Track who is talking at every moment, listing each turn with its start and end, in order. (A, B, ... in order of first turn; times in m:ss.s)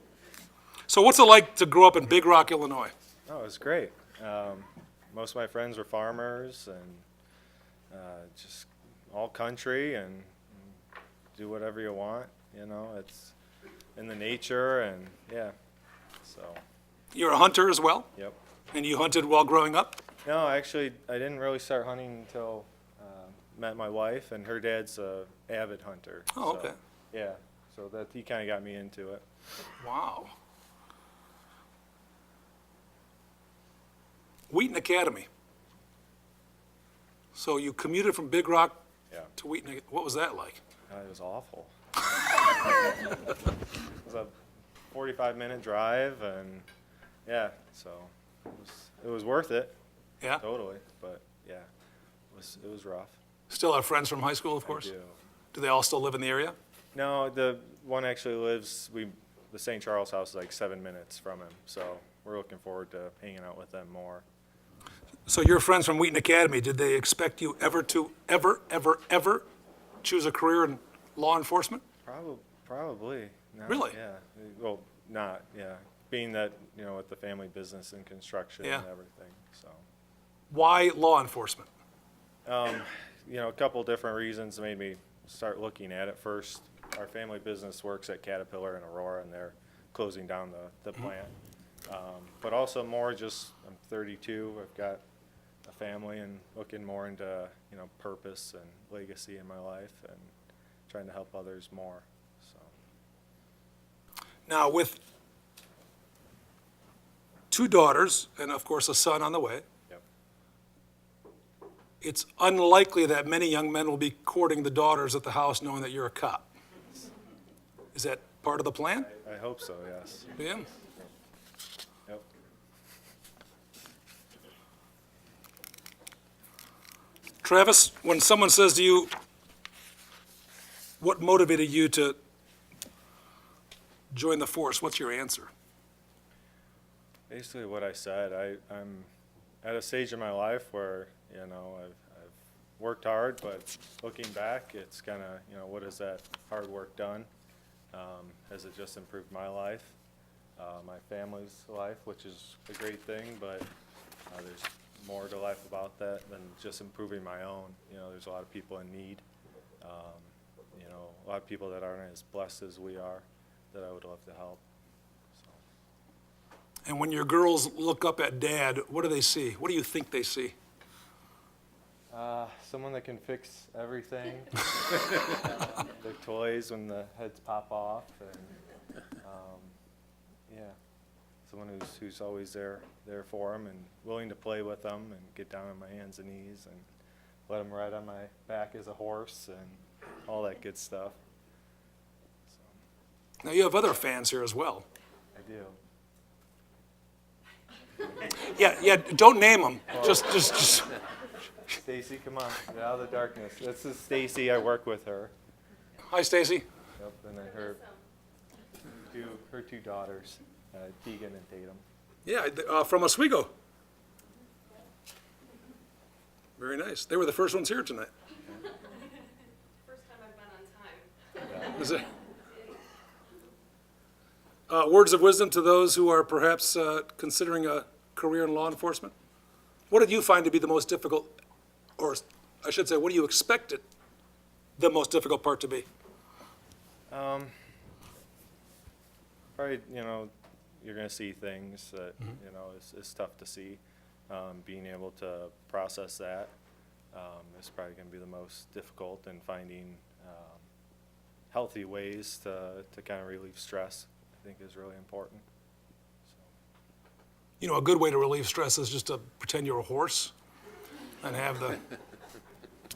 0:00.9-0:02.9 A
0:03.3-0:07.0 B
0:07.9-0:10.8 B
0:11.4-0:13.3 B
0:14.0-0:15.5 B
0:16.2-0:16.6 B
0:17.1-0:18.1 A
0:18.7-0:20.0 A
0:20.2-0:29.2 B
0:26.3-0:26.8 A
0:29.8-0:30.3 A
0:34.5-0:35.3 A
0:37.3-0:38.8 A
0:39.3-0:40.6 A
0:40.9-0:42.5 B
0:44.0-0:44.3 B
0:44.9-0:46.7 B
0:47.2-0:49.7 B
0:50.4-0:51.7 B
0:52.3-0:53.2 B
0:53.5-0:54.9 A
0:54.6-0:55.2 B
0:55.5-0:56.6 A
0:56.9-1:04.2 B
1:05.3-1:09.4 A
1:10.0-1:11.8 A
1:12.0-1:19.8 B
1:13.7-1:14.0 A
1:20.5-1:21.7 A
1:22.4-1:31.3 B
1:31.9-1:35.0 B
1:35.6-1:40.3 B
1:40.9-1:42.7 B
1:44.5-1:45.0 A
1:47.5-1:49.6 A
1:52.0-1:56.5 A
1:57.9-1:59.1 A
1:59.1-2:00.4 B
2:00.4-2:00.7 A
2:07.4-2:09.1 A
2:11.0-2:12.2 A
2:14.1-2:15.5 A
2:17.3-2:19.1 B
2:19.6-2:27.3 B
2:27.9-2:30.0 B
2:30.6-2:33.7 B
2:34.3-2:39.2 B
2:39.8-2:44.6 B
2:45.3-2:45.6 B
2:46.9-2:50.6 A
2:52.1-2:58.6 B
2:59.2-2:59.7 B
3:00.5-3:00.8 B
3:01.5-3:06.8 B
3:07.5-3:11.2 B
3:12.5-3:12.8 B
3:13.4-3:14.8 A
3:15.3-3:15.8 B
3:18.4-3:21.0 A
3:19.9-3:20.4 B
3:21.7-3:25.3 B
3:26.1-3:26.6 A
3:27.0-3:27.8 B
3:27.4-3:28.0 C
3:28.9-3:31.8 B
3:32.2-3:33.5 A
3:36.6-3:38.1 A
3:39.8-3:42.0 C
3:41.6-3:42.1 A
3:44.7-3:49.1 A
3:49.9-3:51.3 A
3:52.0-3:53.8 A
3:54.8-3:55.9 A
3:57.1-3:57.5 B
3:59.6-4:06.5 B
4:07.1-4:10.7 B
4:11.5-4:15.4 B
4:16.2-4:16.5 B
4:17.6-4:20.3 A
4:21.2-4:21.8 A